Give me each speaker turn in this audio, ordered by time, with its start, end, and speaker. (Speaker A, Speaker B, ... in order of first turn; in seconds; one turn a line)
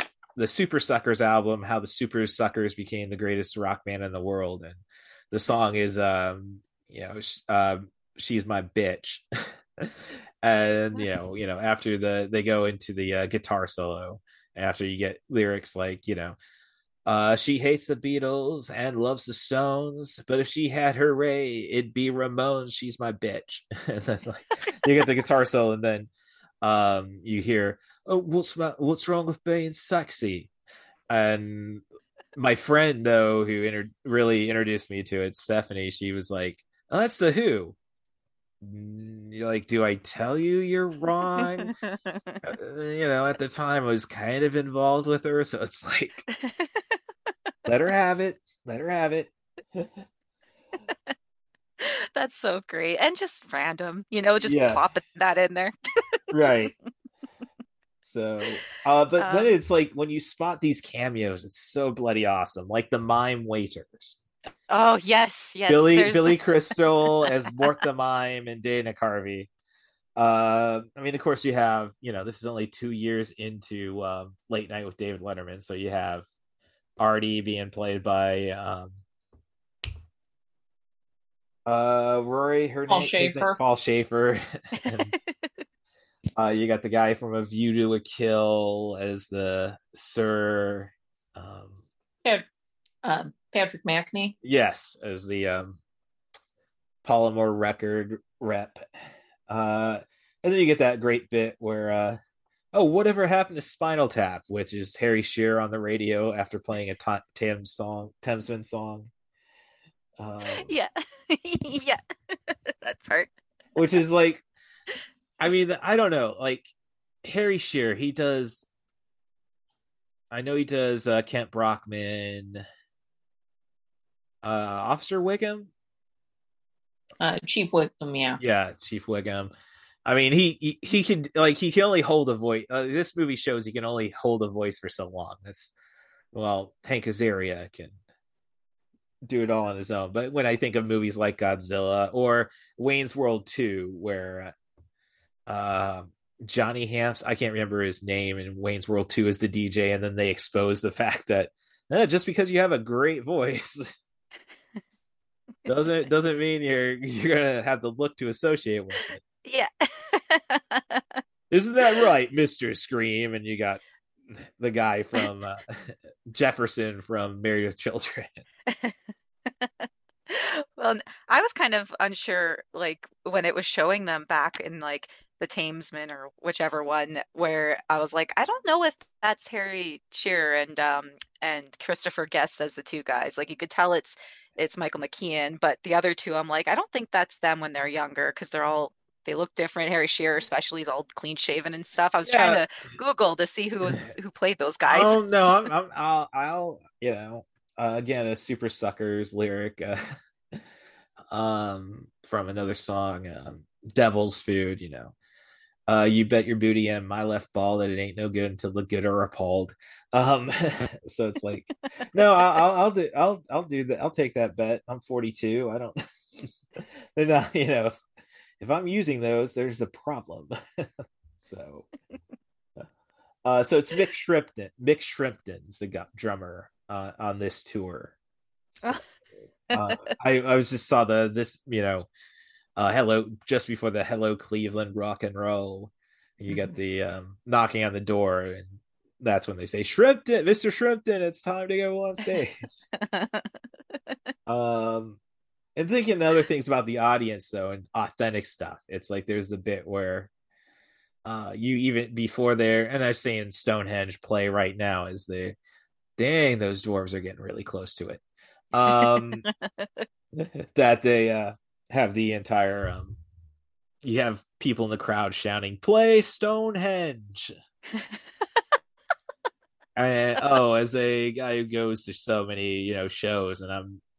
Speaker A: 0.3-9.2
Speaker A: 9.8-16.4
Speaker A: 17.1-26.1
Speaker A: 26.6-30.5
Speaker A: 31.1-31.8
Speaker A: 32.3-37.8
Speaker A: 38.6-41.7
Speaker B: 41.4-42.4
Speaker A: 42.4-46.2
Speaker B: 46.4-46.8
Speaker A: 47.6-49.9
Speaker B: 51.8-55.7
Speaker A: 54.4-54.8
Speaker A: 56.3-56.7
Speaker A: 58.0-64.2
Speaker B: 59.2-59.5
Speaker B: 64.7-66.4
Speaker A: 65.7-69.5
Speaker A: 70.2-76.2
Speaker A: 77.0-79.0
Speaker A: 81.7-85.2
Speaker C: 82.9-83.6
Speaker A: 86.3-91.8
Speaker C: 93.0-94.3
Speaker A: 94.4-95.8
Speaker A: 97.0-98.8
Speaker A: 99.5-102.2
Speaker A: 102.7-109.1
Speaker A: 110.2-110.7
Speaker B: 110.5-113.3
Speaker A: 113.7-114.4
Speaker A: 115.4-116.7
Speaker A: 117.2-118.7
Speaker A: 120.3-122.7
Speaker A: 124.4-125.7
Speaker C: 127.2-128.4
Speaker A: 128.4-129.5
Speaker A: 130.0-135.7
Speaker A: 136.3-138.0
Speaker A: 139.2-144.5
Speaker A: 145.5-153.9
Speaker A: 155.7-159.2
Speaker B: 159.4-161.2
Speaker A: 161.5-168.4
Speaker B: 168.7-168.9
Speaker B: 169.5-195.2
Speaker A: 192.2-192.6
Speaker A: 194.9-200.0
Speaker A: 201.3-205.1
Speaker A: 205.9-218.0
Speaker A: 218.6-221.9
Speaker A: 223.4-228.1
Speaker A: 228.7-229.0
Speaker B: 229.7-230.0
Speaker A: 229.7-232.1
Speaker A: 232.8-242.8
Speaker B: 243.0-243.5
Speaker A: 244.4-245.2
Speaker A: 245.8-250.3
Speaker A: 251.2-255.6
Speaker A: 256.2-258.2
Speaker A: 258.7-259.4
Speaker B: 258.9-260.0
Speaker A: 260.3-263.2
Speaker A: 264.0-267.6
Speaker A: 269.9-274.0